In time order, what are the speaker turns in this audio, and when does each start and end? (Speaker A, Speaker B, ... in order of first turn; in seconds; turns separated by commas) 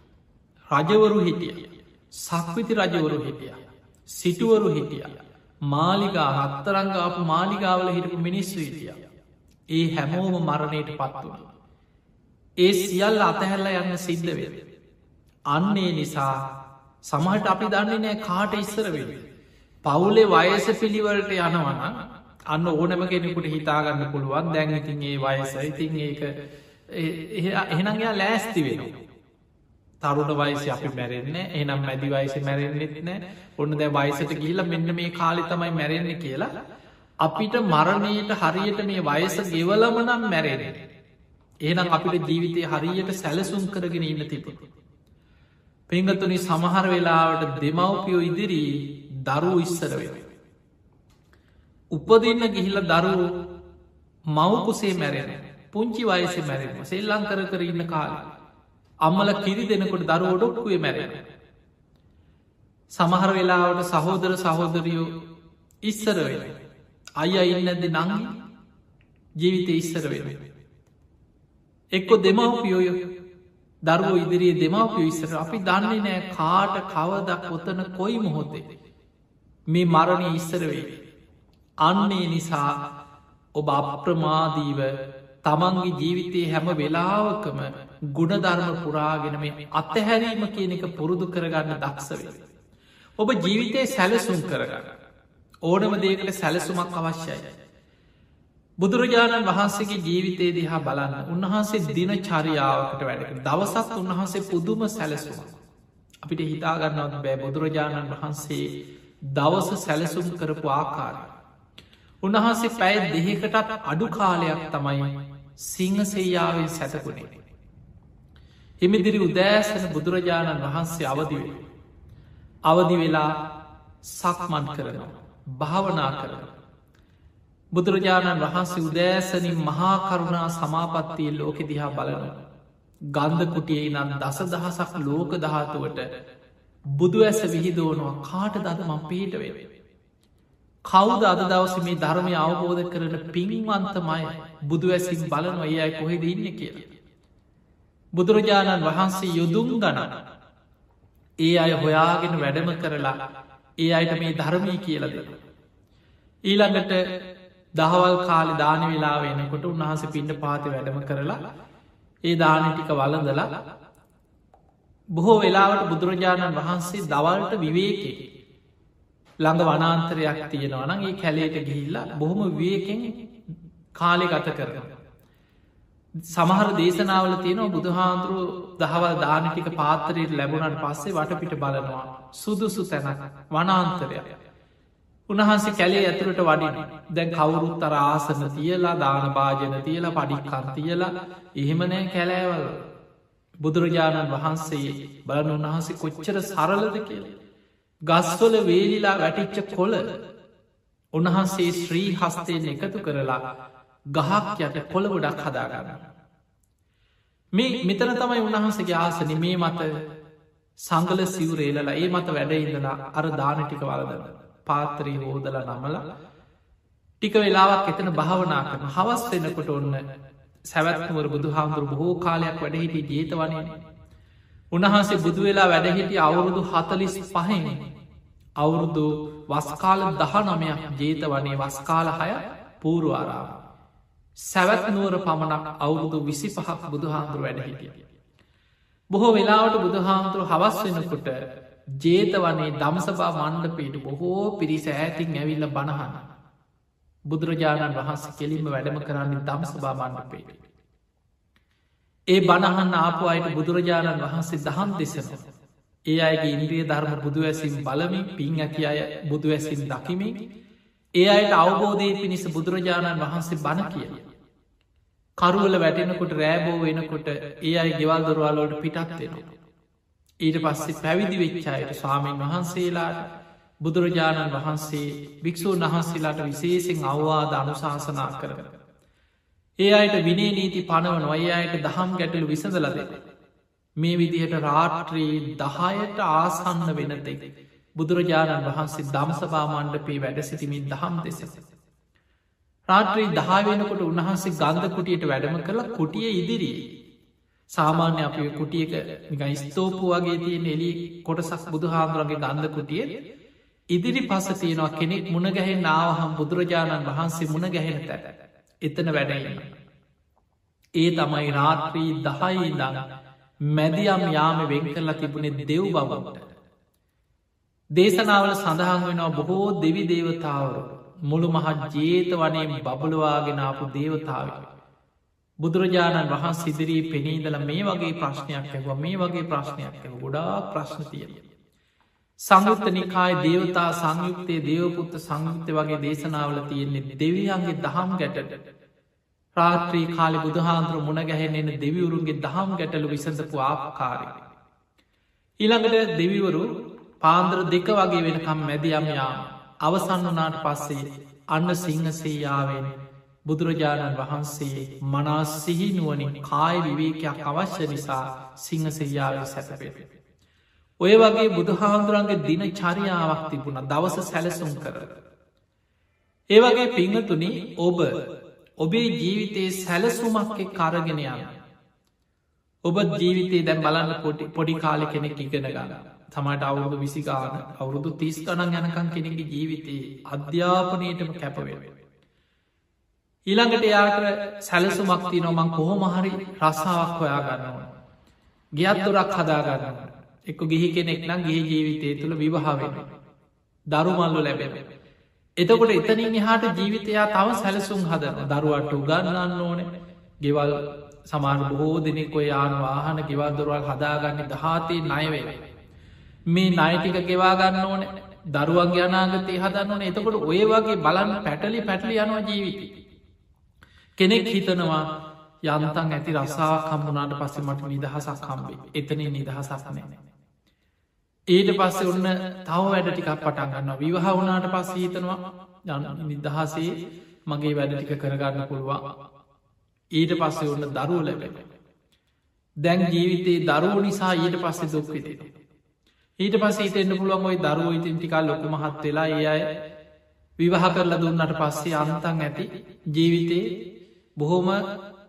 Speaker A: 0.7-9.0, Speaker A: 9.7-11.5, Speaker A: 12.6-14.6, Speaker A: 15.5-16.4, Speaker A: 17.0-19.3, Speaker A: 19.9-21.9, Speaker A: 22.5-26.3, Speaker A: 26.9-28.9, Speaker A: 30.0-36.5, Speaker A: 37.2-40.9, Speaker A: 41.6-44.6, Speaker A: 45.9-50.3, Speaker A: 51.9-53.3, Speaker A: 54.3-58.2, Speaker A: 59.0-61.2, Speaker A: 62.9-65.1, Speaker A: 65.8-66.6, Speaker A: 67.2-68.3, Speaker A: 69.4-70.4, Speaker A: 71.9-73.1, Speaker A: 73.8-78.7, Speaker A: 79.7-81.0, Speaker A: 81.8-82.8, Speaker A: 83.5-92.4, Speaker A: 93.2-94.9, Speaker A: 95.7-97.5, Speaker A: 98.8-105.5, Speaker A: 106.2-108.7, Speaker A: 109.3-111.3, Speaker A: 112.2-117.3, Speaker A: 118.8-121.6, Speaker A: 122.7-123.3, Speaker A: 124.0-126.5, Speaker A: 127.7-132.4, Speaker A: 133.1-136.1, Speaker A: 136.9-139.7, Speaker A: 140.8-146.9, Speaker A: 148.2-150.1, Speaker A: 151.4-153.2, Speaker A: 153.8-155.4, Speaker A: 156.4-157.1, Speaker A: 157.8-161.4, Speaker A: 162.3-163.5, Speaker A: 165.2-168.2, Speaker A: 169.4-173.2, Speaker A: 173.9-174.9, Speaker A: 176.3-184.3, Speaker A: 185.3-192.8, Speaker A: 193.6-197.3, Speaker A: 198.1-200.1, Speaker A: 201.1-203.4, Speaker A: 204.1-206.0, Speaker A: 207.5-209.9, Speaker A: 210.8-216.0, Speaker A: 217.2-220.0, Speaker A: 220.7-223.7, Speaker A: 224.7-227.8, Speaker A: 228.6-233.6, Speaker A: 234.4-238.1, Speaker A: 239.1-241.4, Speaker A: 241.9-246.2, Speaker A: 247.3-250.6, Speaker A: 252.3-255.5, Speaker A: 256.1-260.4, Speaker A: 261.2-264.2, Speaker A: 265.4-269.4, Speaker A: 270.4-273.3, Speaker A: 273.8-278.8, Speaker A: 279.8-283.2, Speaker A: 284.0-291.6, Speaker A: 292.9-296.9, Speaker A: 297.7-303.1, Speaker A: 303.9-308.3, Speaker A: 308.8-309.7, Speaker A: 311.0-313.0, Speaker A: 313.6-316.5, Speaker A: 318.0-324.7, Speaker A: 325.6-331.4, Speaker A: 332.4-338.5, Speaker A: 339.6-344.4, Speaker A: 345.6-346.7, Speaker A: 347.2-352.9, Speaker A: 353.5-360.1, Speaker A: 361.0-365.1, Speaker A: 366.5-368.2, Speaker A: 368.8-371.5, Speaker A: 372.9-381.9, Speaker A: 383.5-387.9, Speaker A: 388.8-393.1, Speaker A: 393.9-394.9, Speaker A: 395.6-399.9, Speaker A: 400.4-405.6, Speaker A: 406.5-412.9, Speaker A: 414.2-415.1, Speaker A: 415.6-420.2, Speaker A: 421.5-426.9, Speaker A: 427.5-429.0, Speaker A: 430.1-431.7, Speaker A: 432.8-435.5, Speaker A: 436.4-439.7, Speaker A: 440.6-443.6, Speaker A: 444.4-444.8